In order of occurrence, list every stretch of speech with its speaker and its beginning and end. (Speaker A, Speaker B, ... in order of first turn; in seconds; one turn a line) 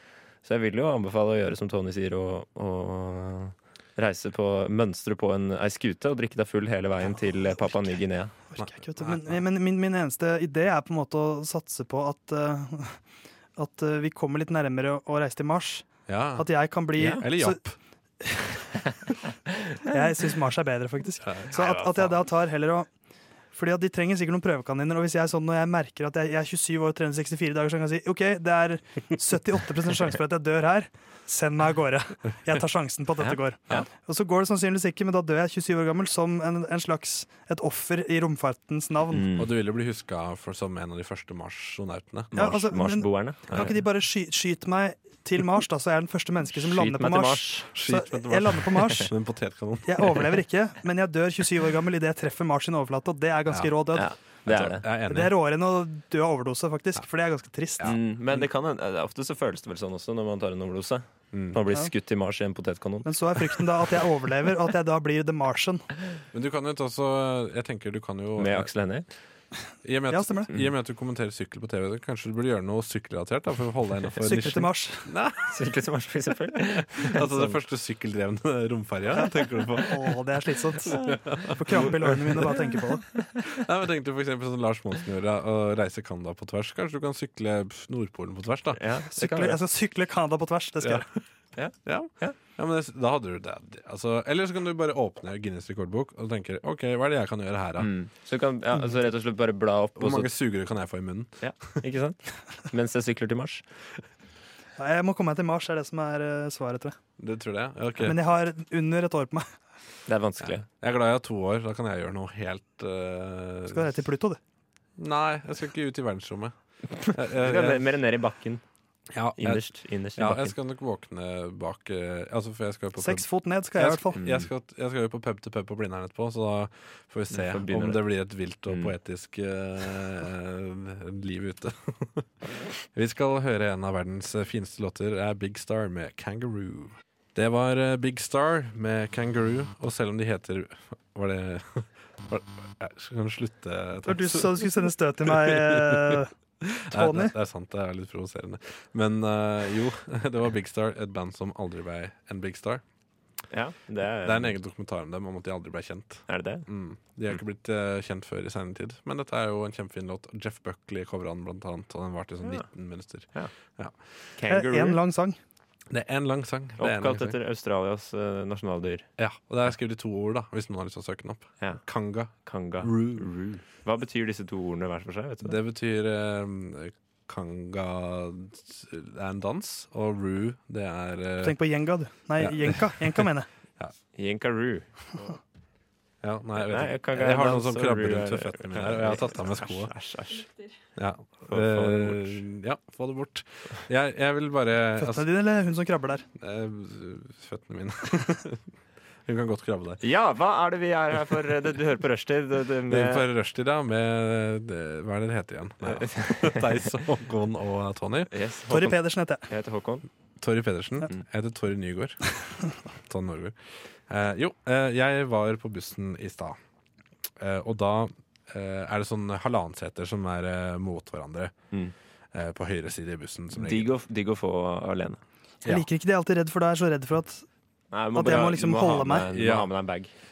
Speaker A: 0.4-8.3
Speaker B: 8.5-13.0
Speaker C: 8.6-9.4
Speaker B: 13.6-17.6
Speaker C: 16.1-16.5
Speaker C: 17.0-17.8
Speaker B: 18.2-18.6
Speaker B: 19.9-22.9
Speaker C: 21.2-22.2
Speaker B: 23.5-39.3
Speaker A: 33.2-33.9
Speaker A: 39.1-39.5
Speaker C: 39.4-42.3
Speaker A: 42.3-43.7
Speaker B: 42.3-49.1
Speaker A: 46.6-47.7
Speaker C: 47.8-50.2
Speaker B: 49.9-54.1
Speaker C: 53.5-55.3
Speaker A: 53.9-54.9
Speaker B: 55.1-57.9
Speaker A: 57.8-63.6
Speaker C: 61.3-61.6
Speaker B: 63.0-65.9
Speaker C: 66.3-68.7
Speaker A: 68.4-69.1
Speaker C: 69.8-75.6
Speaker B: 70.1-70.5
Speaker B: 74.2-75.1
Speaker A: 75.5-77.6
Speaker C: 76.7-80.0
Speaker B: 79.2-83.1
Speaker C: 81.0-82.6
Speaker C: 83.5-88.8
Speaker A: 88.7-89.6
Speaker B: 89.1-91.1
Speaker A: 91.6-92.4
Speaker C: 91.8-97.9
Speaker A: 97.8-100.3
Speaker C: 100.0-101.4
Speaker A: 101.4-103.6
Speaker B: 104.8-107.0
Speaker C: 107.2-108.2
Speaker B: 108.0-109.5
Speaker A: 110.1-110.7
Speaker C: 110.4-114.0
Speaker B: 113.7-114.4
Speaker C: 115.0-117.9
Speaker A: 116.9-118.6
Speaker C: 119.1-144.7
Speaker A: 119.4-120.5
Speaker B: 123.0-124.2
Speaker A: 124.2-124.5
Speaker A: 127.3-128.1
Speaker A: 128.7-128.9
Speaker B: 144.1-146.3
Speaker C: 145.3-152.8
Speaker B: 146.9-147.3
Speaker A: 153.5-154.6
Speaker C: 154.2-164.0
Speaker A: 156.3-156.7
Speaker A: 164.4-165.0
Speaker B: 164.5-165.4
Speaker C: 165.9-167.4
Speaker A: 166.8-169.1
Speaker C: 169.2-173.3
Speaker A: 171.6-175.6
Speaker C: 175.4-181.6
Speaker B: 181.4-183.5
Speaker C: 182.4-183.9
Speaker A: 184.2-185.3
Speaker C: 186.2-189.9
Speaker A: 186.6-190.5
Speaker C: 190.9-195.3
Speaker A: 191.5-192.4
Speaker B: 195.0-196.3
Speaker C: 196.4-198.6
Speaker C: 199.3-200.0
Speaker A: 200.0-203.3
Speaker C: 202.9-208.3
Speaker A: 205.8-207.0
Speaker A: 208.3-210.1
Speaker B: 208.7-209.5
Speaker C: 210.4-212.3
Speaker C: 213.0-216.6
Speaker C: 217.4-221.5
Speaker C: 222.3-223.9
Speaker A: 223.6-225.2
Speaker B: 225.7-227.5
Speaker A: 227.9-230.1
Speaker B: 228.1-229.3
Speaker C: 229.3-229.7